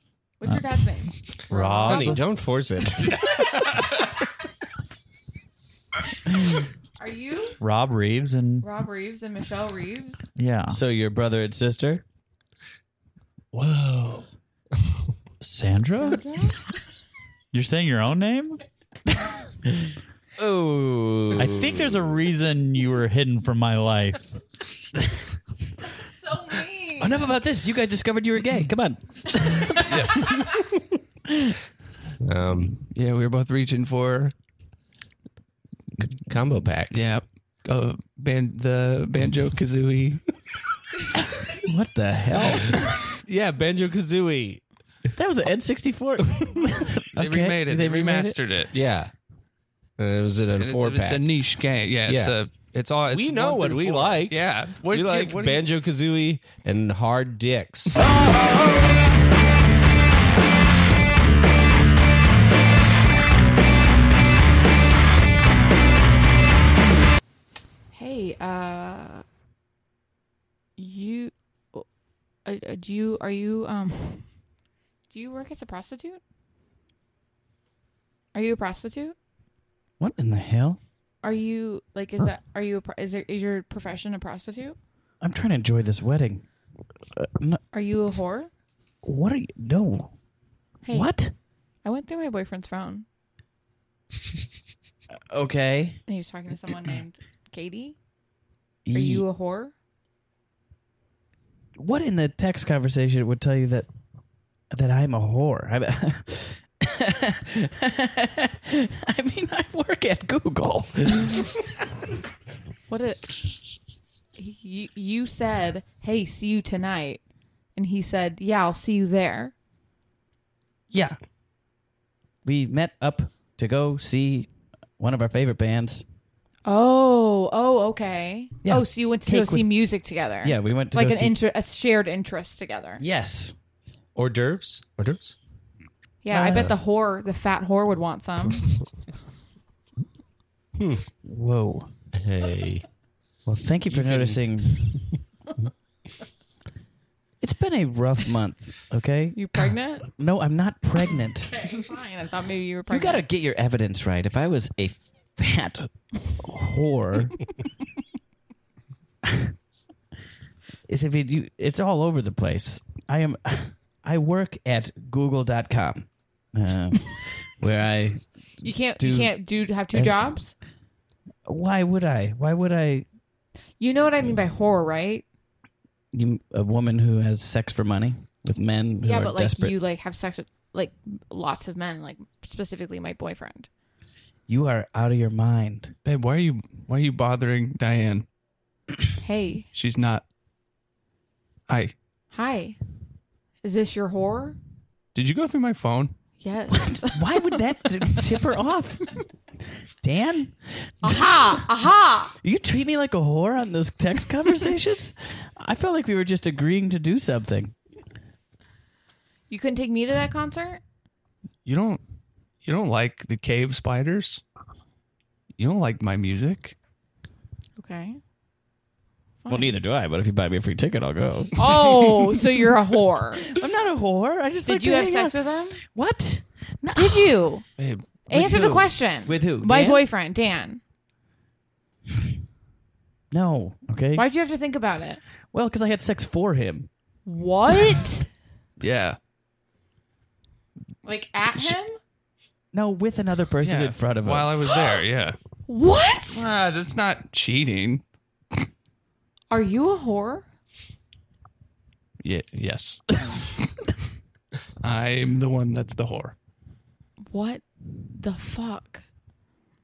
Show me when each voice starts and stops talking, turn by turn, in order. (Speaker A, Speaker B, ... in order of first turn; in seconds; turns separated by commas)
Speaker A: 0.4-2.2, Speaker B: 1.5-2.2, Speaker C: 1.8-3.6, Speaker A: 7.0-7.6, Speaker B: 7.6-8.7, Speaker A: 8.6-10.2, Speaker B: 10.4-10.8, Speaker D: 10.7-12.0, Speaker C: 13.5-14.2, Speaker B: 15.4-16.2, Speaker A: 16.0-16.7, Speaker B: 17.5-18.6, Speaker D: 20.4-21.8, Speaker B: 21.4-24.4, Speaker A: 25.8-27.3, Speaker D: 27.0-30.3, Speaker A: 29.6-30.4, Speaker E: 29.9-30.2, Speaker D: 31.3-31.6, Speaker C: 32.2-32.8, Speaker E: 32.9-34.3, Speaker C: 36.3-37.0, Speaker E: 36.9-40.2, Speaker D: 41.6-43.0, Speaker C: 43.2-44.6, Speaker D: 45.2-48.4, Speaker E: 47.2-48.7, Speaker C: 48.7-49.1, Speaker C: 50.0-51.4, Speaker E: 50.6-55.6, Speaker C: 52.0-52.4, Speaker C: 53.1-58.0, Speaker A: 67.9-69.2, Speaker A: 70.8-71.9, Speaker A: 72.5-74.3, Speaker A: 75.1-76.2, Speaker A: 78.3-79.2, Speaker D: 80.0-80.8, Speaker A: 81.2-84.8, Speaker D: 85.2-86.5, Speaker D: 87.2-87.6, Speaker A: 87.7-88.5, Speaker D: 89.0-90.1, Speaker A: 90.8-91.3, Speaker D: 90.9-91.3, Speaker A: 91.8-93.0, Speaker D: 95.3-96.0, Speaker A: 96.1-98.0, Speaker D: 98.8-99.2, Speaker A: 98.9-99.7, Speaker D: 101.8-103.9, Speaker D: 104.7-111.5, Speaker A: 112.9-113.4, Speaker A: 114.3-117.2, Speaker A: 117.8-119.5, Speaker D: 120.9-121.2, Speaker D: 122.4-126.0, Speaker A: 126.7-133.0, Speaker D: 128.6-131.3, Speaker D: 133.0-133.6, Speaker C: 134.2-135.3, Speaker A: 136.2-138.8, Speaker D: 136.3-136.8, Speaker C: 140.8-141.1, Speaker D: 141.2-141.9, Speaker C: 142.1-142.9, Speaker D: 143.5-145.1, Speaker C: 143.9-144.4, Speaker D: 147.4-149.4, Speaker A: 149.3-150.1, Speaker D: 150.1-151.5, Speaker A: 151.5-153.2, Speaker D: 152.9-157.5, Speaker D: 160.9-168.3, Speaker A: 168.6-170.5, Speaker D: 169.0-170.4, Speaker D: 171.5-173.1, Speaker A: 173.8-175.2, Speaker D: 176.1-179.8, Speaker A: 179.0-183.7, Speaker D: 184.5-185.9, Speaker E: 186.1-188.3, Speaker A: 189.2-189.7, Speaker E: 189.7-190.2, Speaker E: 191.7-191.9, Speaker A: 192.3-192.8, Speaker A: 193.6-194.6, Speaker E: 195.1-196.2, Speaker A: 196.4-197.6, Speaker D: 196.7-199.2, Speaker D: 200.0-201.7, Speaker A: 201.0-202.3, Speaker D: 202.4-207.8, Speaker A: 209.5-210.8, Speaker E: 211.7-212.0, Speaker E: 212.6-214.4, Speaker E: 215.6-216.8, Speaker A: 217.8-218.2, Speaker A: 219.4-219.8, Speaker D: 219.5-222.4, Speaker A: 221.6-223.6, Speaker D: 223.4-227.4, Speaker A: 224.7-225.8, Speaker A: 226.9-227.7, Speaker E: 227.8-228.8, Speaker A: 228.3-230.8, Speaker D: 228.3-230.1, Speaker D: 233.3-234.3, Speaker A: 234.2-235.2, Speaker D: 235.5-236.9, Speaker A: 237.3-238.3, Speaker E: 238.8-239.2, Speaker A: 241.1-242.0, Speaker D: 242.7-244.7, Speaker E: 243.6-245.4, Speaker A: 245.7-246.5, Speaker E: 246.3-248.1, Speaker A: 249.5-250.5, Speaker E: 252.2-253.6, Speaker E: 254.8-256.4, Speaker A: 257.3-259.1